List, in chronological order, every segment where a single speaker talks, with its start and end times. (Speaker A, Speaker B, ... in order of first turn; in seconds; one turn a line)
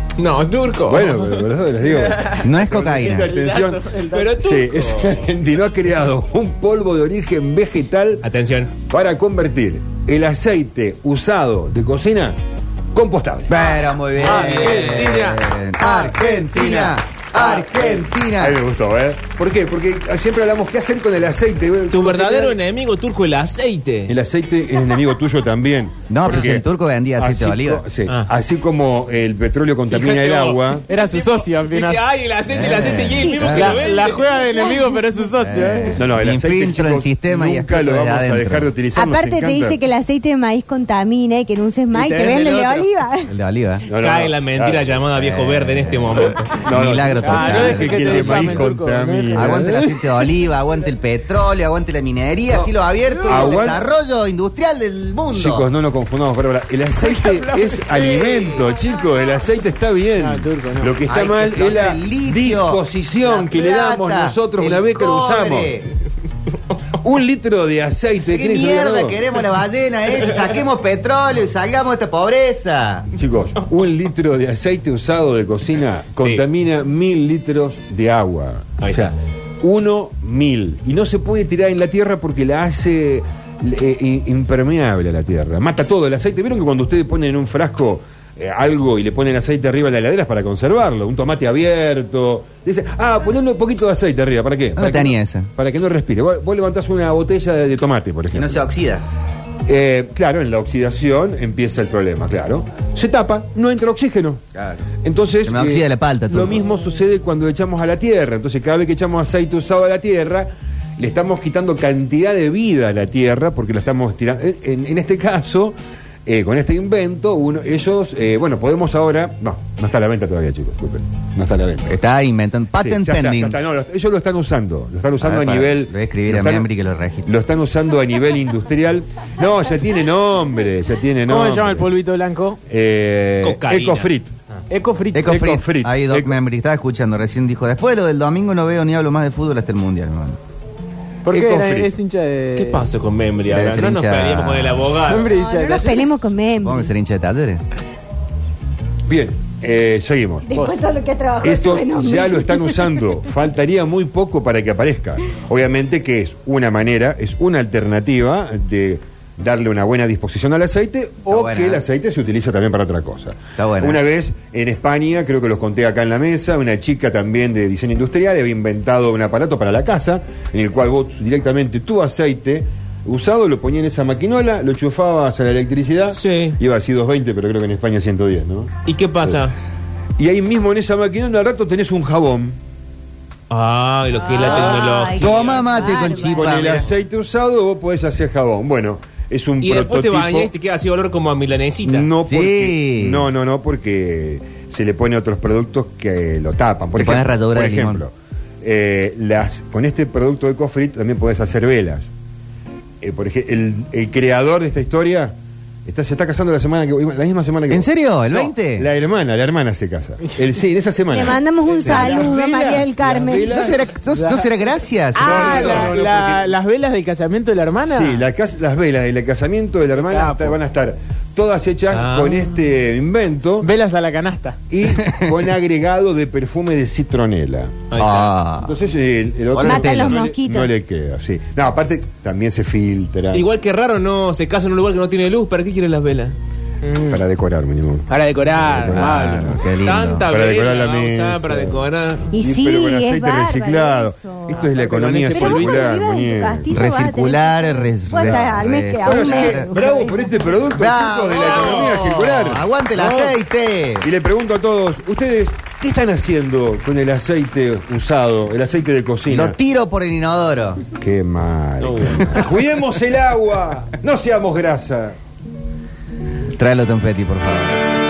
Speaker A: 0.2-1.4
Speaker B: 0.9-8.2
Speaker C: 2.3-3.3
Speaker D: 3.0-4.3
Speaker A: 4.0-5.2
Speaker A: 8.2-8.8
Speaker B: 8.8-12.4
Speaker B: 12.9-14.9
Speaker C: 13.5-18.6
Speaker A: 14.2-15.4
Speaker A: 16.7-16.9
Speaker B: 17.3-22.6
Speaker A: 21.9-24.1
Speaker B: 24.1-26.6
Speaker C: 26.1-27.8
Speaker B: 27.2-30.8
Speaker A: 29.9-34.4
Speaker D: 30.9-32.0
Speaker C: 32.5-33.8
Speaker E: 33.0-33.6
Speaker D: 33.5-36.0
Speaker E: 34.5-35.0
Speaker C: 35.4-38.7
Speaker B: 35.9-39.8
Speaker E: 39.0-43.3
Speaker D: 41.9-42.9
Speaker C: 43.3-43.8
Speaker B: 43.9-45.0
Speaker A: 44.0-46.6
Speaker C: 45.1-48.7
Speaker B: 46.5-49.7
Speaker D: 47.2-50.1
Speaker C: 49.3-55.7
Speaker D: 53.1-53.5
Speaker B: 53.2-53.8
Speaker B: 55.3-65.8
Speaker D: 57.0-57.7
Speaker C: 57.9-58.6
Speaker D: 60.2-61.0
Speaker C: 61.1-65.9
Speaker B: 67.0-69.2
Speaker C: 68.2-73.1
Speaker B: 73.2-98.7
Speaker A: 76.2-76.4
Speaker A: 78.8-79.1
Speaker C: 94.8-95.5
Speaker C: 98.3-99.0
Speaker B: 99.7-104.4
Speaker C: 104.5-104.8
Speaker B: 105.0-115.7
Speaker C: 105.4-106.6
Speaker B: 116.3-122.0
Speaker C: 121.9-123.6
Speaker B: 122.7-126.7
Speaker C: 125.2-127.3
Speaker B: 127.2-131.9
Speaker D: 131.2-132.6
Speaker B: 132.7-134.3
Speaker A: 133.4-134.1
Speaker D: 134.7-135.3
Speaker C: 135.1-140.4
Speaker B: 135.2-136.3
Speaker D: 141.2-142.9
Speaker B: 141.3-141.9
Speaker A: 142.6-145.3
Speaker C: 143.5-144.9
Speaker D: 145.1-146.2
Speaker E: 145.3-146.9
Speaker C: 146.6-147.6
Speaker B: 149.1-150.5
Speaker E: 150.5-152.9
Speaker D: 150.5-150.9
Speaker B: 151.4-178.7
Speaker C: 161.3-161.8
Speaker C: 163.6-164.0
Speaker A: 176.1-176.6
Speaker A: 178.8-179.6
Speaker B: 180.2-182.6
Speaker A: 183.5-185.7
Speaker E: 184.3-186.6
Speaker C: 185.1-186.9
Speaker B: 186.2-190.5
Speaker A: 189.6-192.1
Speaker B: 191.8-202.1
Speaker C: 192.3-193.3
Speaker C: 196.9-198.0
Speaker B: 203.0-205.3
Speaker B: 205.8-213.9
Speaker C: 207.7-208.9
Speaker E: 211.1-213.5
Speaker C: 213.4-215.9
Speaker D: 214.1-214.5
Speaker D: 215.1-218.2
Speaker B: 215.2-216.5
Speaker B: 217.9-223.7
Speaker D: 220.0-220.6
Speaker A: 221.9-222.5
Speaker D: 223.6-224.6
Speaker B: 224.7-227.8
Speaker C: 225.0-225.3
Speaker A: 227.9-228.3
Speaker C: 228.0-228.7
Speaker B: 228.6-233.4
Speaker C: 229.5-230.2
Speaker E: 229.6-230.7
Speaker A: 233.3-236.3
Speaker D: 236.8-237.2
Speaker B: 237.0-239.7
Speaker D: 238.1-239.5
Speaker C: 238.8-240.3
Speaker A: 239.7-242.3
Speaker B: 240.3-241.8
Speaker E: 242.3-244.6
Speaker B: 242.4-246.7
Speaker D: 244.6-245.9
Speaker E: 245.3-250.3
Speaker C: 246.7-249.7
Speaker B: 248.1-252.7
Speaker C: 250.8-254.1
Speaker A: 251.4-251.9
Speaker B: 254.0-259.6
Speaker C: 259.3-260.8
Speaker B: 261.0-265.2
Speaker A: 261.8-262.4
Speaker C: 266.6-267.8